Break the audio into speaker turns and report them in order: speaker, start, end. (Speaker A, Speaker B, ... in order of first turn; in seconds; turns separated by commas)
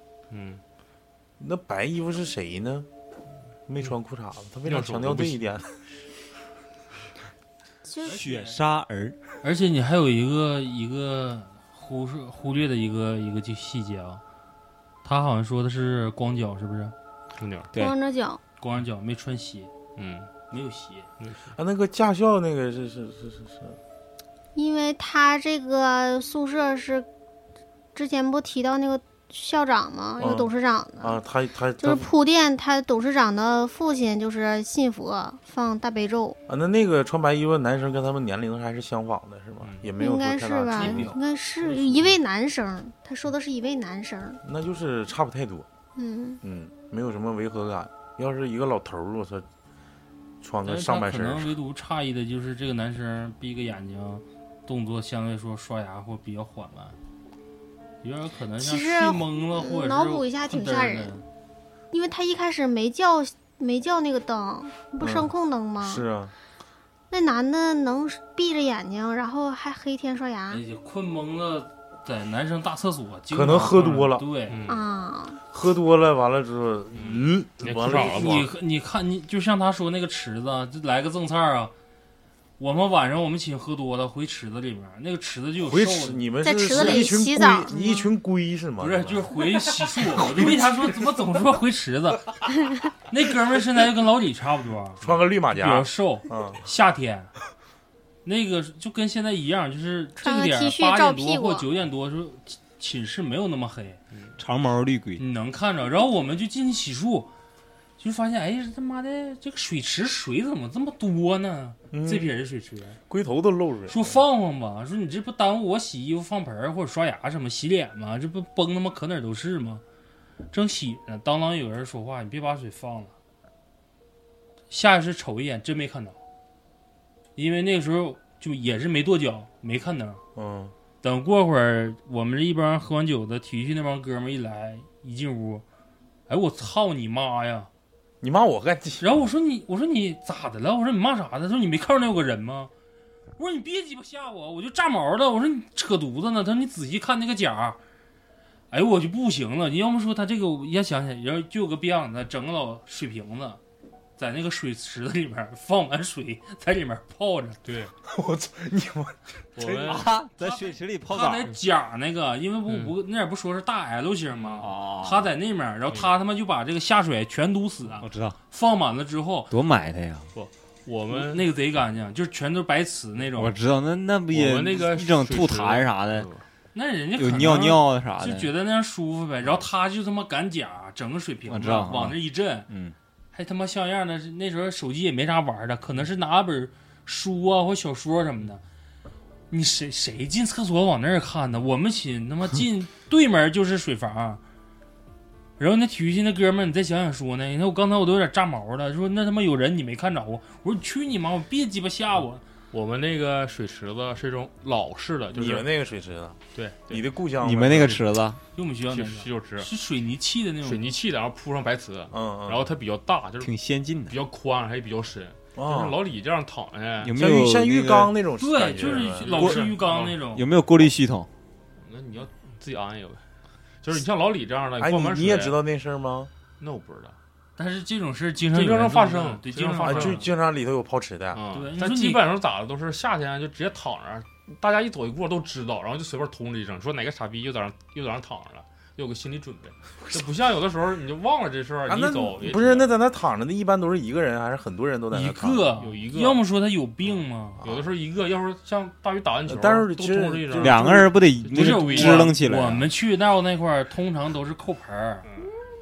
Speaker A: 0.3-0.6, Speaker B: 1.4-2.9, Speaker B: 3.7-5.7, Speaker A: 4.7-5.5, Speaker C: 7.8-8.2, Speaker D: 8.1-8.6, Speaker E: 8.1-9.2, Speaker D: 9.4-14.2, Speaker D: 15.0-16.9, Speaker A: 17.4-17.7, Speaker C: 17.8-18.4, Speaker D: 18.6-19.7, Speaker A: 20.0-20.3, Speaker D: 20.5-21.1, Speaker A: 21.2-21.5, Speaker B: 21.6-23.8, Speaker C: 24.6-27.1, Speaker C: 27.9-31.2, Speaker B: 30.2-32.1, Speaker C: 31.8-36.4, Speaker B: 36.5-41.1, Speaker A: 39.6-39.9, Speaker C: 40.0-44.4, Speaker D: 40.8-41.2, Speaker A: 41.6-42.2, Speaker B: 44.4-45.7, Speaker C: 46.0-46.4, Speaker B: 46.4-49.5, Speaker B: 50.4-51.6, Speaker D: 50.6-57.0, Speaker D: 58.0-61.3, Speaker C: 58.6-61.2, Speaker C: 61.9-66.0, Speaker B: 65.0-66.3, Speaker C: 67.1-70.6, Speaker D: 70.5-74.6, Speaker B: 73.3-74.2, Speaker A: 74.5-74.9, Speaker C: 74.7-75.4, Speaker B: 75.5-78.5, Speaker A: 77.0-78.5, Speaker D: 77.9-81.7, Speaker D: 82.6-87.0, Speaker B: 85.6-89.4, Speaker C: 86.4-88.1, Speaker D: 88.8-92.4, Speaker B: 90.2-90.8, Speaker D: 93.1-95.0, Speaker B: 95.0-96.6, Speaker D: 95.5-97.3, Speaker D: 98.2-104.0, Speaker C: 100.2-101.7, Speaker E: 104.4-105.2, Speaker D: 105.2-107.3, Speaker D: 108.0-113.0, Speaker B: 111.9-112.3, Speaker B: 113.1-114.2, Speaker D: 113.9-119.8, Speaker D: 120.5-123.1, Speaker D: 124.7-126.2, Speaker D: 127.4-130.2, Speaker B: 130.3-130.7, Speaker D: 131.0-135.6, Speaker D: 136.3-137.7, Speaker B: 138.2-139.1, Speaker D: 139.0-142.7, Speaker D: 143.4-147.8, Speaker D: 148.7-153.6, Speaker D: 154.2-157.6, Speaker A: 157.7-157.9, Speaker B: 158.1-160.1, Speaker A: 159.6-160.1, Speaker E: 159.9-161.5, Speaker D: 160.4-169.5, Speaker A: 162.7-162.9, Speaker A: 164.3-164.7, Speaker E: 164.6-165.3, Speaker A: 165.9-166.2, Speaker E: 168.0-168.4, Speaker E: 169.5-170.3, Speaker A: 170.3-171.5, Speaker D: 171.1-173.6, Speaker E: 173.3-176.3, Speaker A: 174.3-176.4, Speaker D: 176.7-182.7, Speaker E: 177.2-178.5, Speaker E: 181.5-182.9, Speaker D: 183.3-188.6, Speaker D: 189.5-194.4, Speaker D: 195.6-202.4, Speaker A: 202.7-205.7, Speaker B: 205.3-208.0, Speaker A: 206.5-207.0, Speaker E: 207.4-208.4, Speaker D: 208.6-210.9, Speaker A: 208.9-209.7, Speaker A: 210.6-213.5, Speaker B: 212.1-212.7, Speaker E: 213.4-214.2, Speaker A: 214.1-217.1, Speaker B: 215.6-216.0, Speaker E: 217.0-218.1, Speaker B: 217.2-219.5, Speaker D: 218.4-220.5, Speaker A: 218.8-220.2, Speaker E: 219.4-219.6, Speaker E: 220.3-221.3, Speaker A: 221.8-223.2, Speaker A: 223.8-225.6, Speaker B: 224.8-226.3, Speaker A: 226.6-227.2, Speaker D: 227.6-230.3, Speaker A: 228.5-230.3, Speaker B: 229.8-231.4, Speaker A: 231.3-242.9, Speaker D: 231.5-232.2, Speaker B: 241.9-245.7, Speaker D: 245.1-247.6, Speaker A: 245.8-246.4, Speaker B: 247.6-247.9, Speaker A: 247.6-252.3, Speaker B: 249.5-251.1, Speaker E: 250.6-252.9, Speaker D: 251.5-255.3